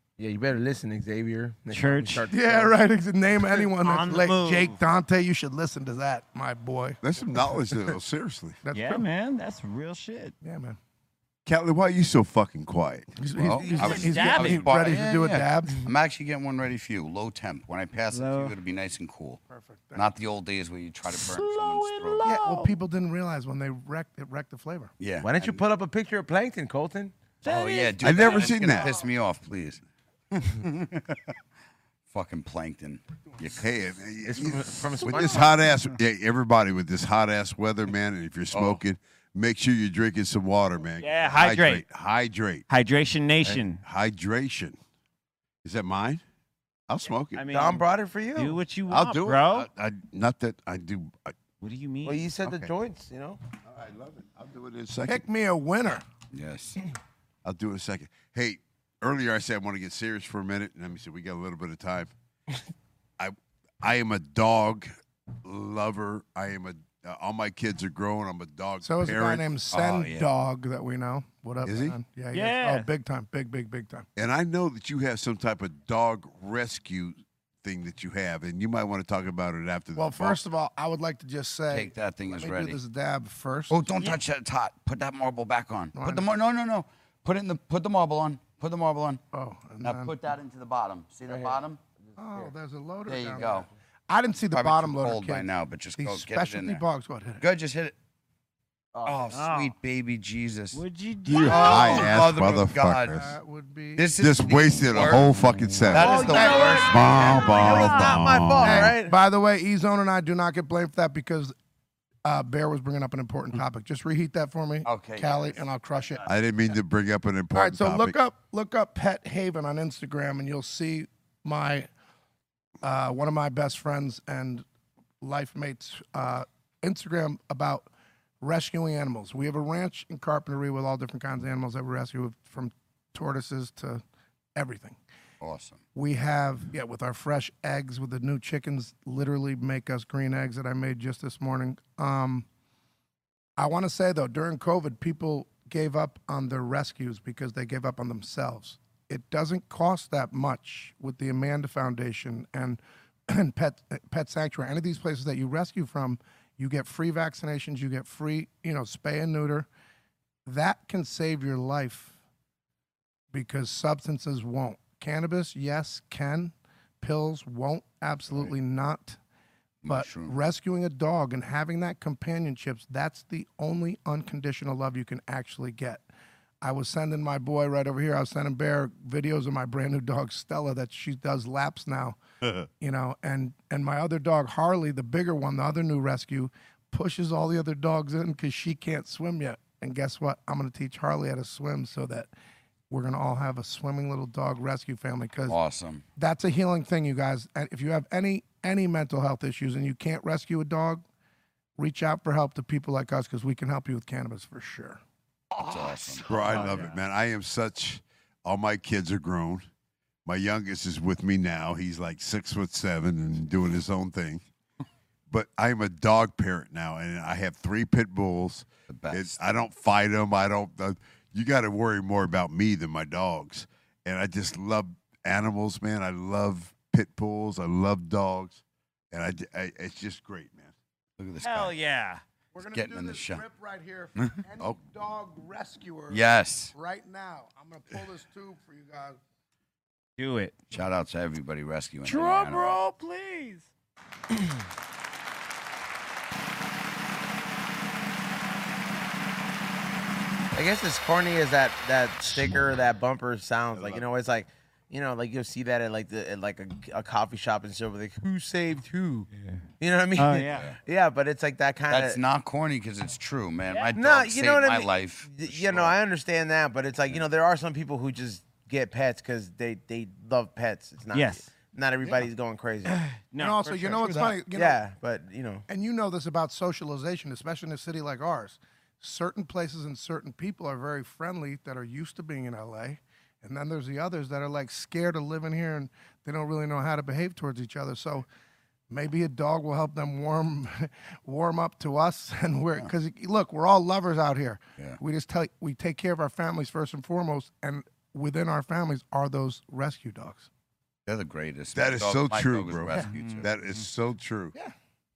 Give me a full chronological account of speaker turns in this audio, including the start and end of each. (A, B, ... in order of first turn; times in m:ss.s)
0:00.2-0:02.8 A
0:01.7-0:02.3 B
0:02.3-0:07.0 C
0:03.8-0:04.8 B
0:07.0-0:08.6 D
0:08.6-0:09.0 C
0:08.7-0:10.3 B
0:10.4-0:10.8 C
0:11.4-0:13.1 D
0:13.2-0:15.8 C
0:13.4-0:19.4 E
0:13.5-0:14.0 A
0:13.8-0:14.7 B
0:18.1-0:18.5 B
0:19.5-0:20.1 C
0:19.9-0:22.2 E
0:21.1-0:22.8 B
0:22.2-0:24.9 C
0:25.0-0:25.6 E
0:25.2-0:27.1 A
0:27.4-0:28.9 B
0:27.4-0:31.3 E
0:28.0-0:29.0 D
0:32.1-0:33.6 E
0:33.6-0:42.6 D
0:34.2-0:35.6 A
0:38.5-0:38.8 E
0:41.0-0:41.8 B
0:42.7-0:43.8 B
0:43.4-0:44.8 D
0:45.6-0:46.2 D
0:46.9-0:47.4 D
0:47.3-0:47.8 B
0:47.5-0:48.6 A
0:48.4-0:49.7 B
0:48.9-0:51.3 D
0:51.6-0:52.3 B
0:52.0-0:53.4 A
0:53.7-0:55.2 D
0:55.0-0:56.0 C
0:56.3-0:56.8 E
0:57.4-1:02.1 D
1:03.2-1:04.9 D
1:05.4-1:09.5 D
1:08.8-1:14.1 C
1:09.7-1:10.3 E
1:11.6-1:12.0 D
1:12.3-1:12.9 B
1:14.2-1:20.4 D
1:20.0-1:23.8 C
1:21.7-1:22.8 E
1:23.7-1:29.2 E
1:25.9-1:26.3 C
1:29.3-1:30.1 C
1:29.8-1:31.8 E
1:31.3-1:31.6 A
1:32.2-1:37.4 C
1:33.1-1:33.7 E
1:34.5-1:36.8 E
1:37.4-1:37.9 E
1:39.0-1:43.2 E
1:39.3-1:39.7 B
1:40.7-1:42.2 B
1:41.3-1:43.4 D
1:43.1-1:44.1 C
1:44.0-1:47.2 E
1:44.2-1:48.9 D
1:45.9-1:49.2 A
1:46.0-1:46.8 C
1:47.5-1:48.2 B
1:48.6-1:51.5 C
1:52.2-1:56.2 C
1:54.8-1:55.6 E
1:56.2-1:58.2 D
1:57.5-2:01.9 C
2:02.8-2:04.6 C
2:05.2-2:07.9 C
2:08.4-2:14.0 C
2:14.6-2:15.0 C
2:15.4-2:15.8 E
2:15.9-2:22.4 C
2:23.6-2:39.7 C
2:40.4-2:42.1 C
2:43.3-2:49.2 C
2:49.8-2:50.4 E
2:49.8-2:56.0 C
2:56.6-3:02.2 C
3:02.8-3:12.3 C
3:12.9-3:15.6 C
3:15.5-3:16.0 E
3:16.2-3:21.0 C
3:21.8-3:25.0 C
3:25.6-3:26.7 E
3:26.2-3:29.7 D
3:26.4-3:26.9 B
3:30.2-3:34.4 D
3:35.3-3:50.7 D
3:38.9-3:39.4 E
3:51.2-3:51.8 E
3:51.4-3:52.2 B
3:52.5-3:59.2 C
3:52.7-3:53.4 E
3:56.1-3:56.7 E
4:00.2-4:00.6 B
4:00.7-4:02.8 E
4:02.0-4:03.6 B
4:10.5-4:19.3 A
4:19.8-4:22.2 A
4:20.2-4:20.6 B
4:20.5-4:20.8 E
4:21.9-4:26.0 E
4:23.9-4:33.0 A
4:31.1-4:31.5 B
4:33.3-4:34.4 B
4:33.4-4:34.8 C
4:34.5-4:35.6 A
4:35.7-4:48.3 C
4:48.9-5:00.5 C
5:01.0-5:03.5 E
5:01.7-5:04.5 D
5:03.1-5:03.4 B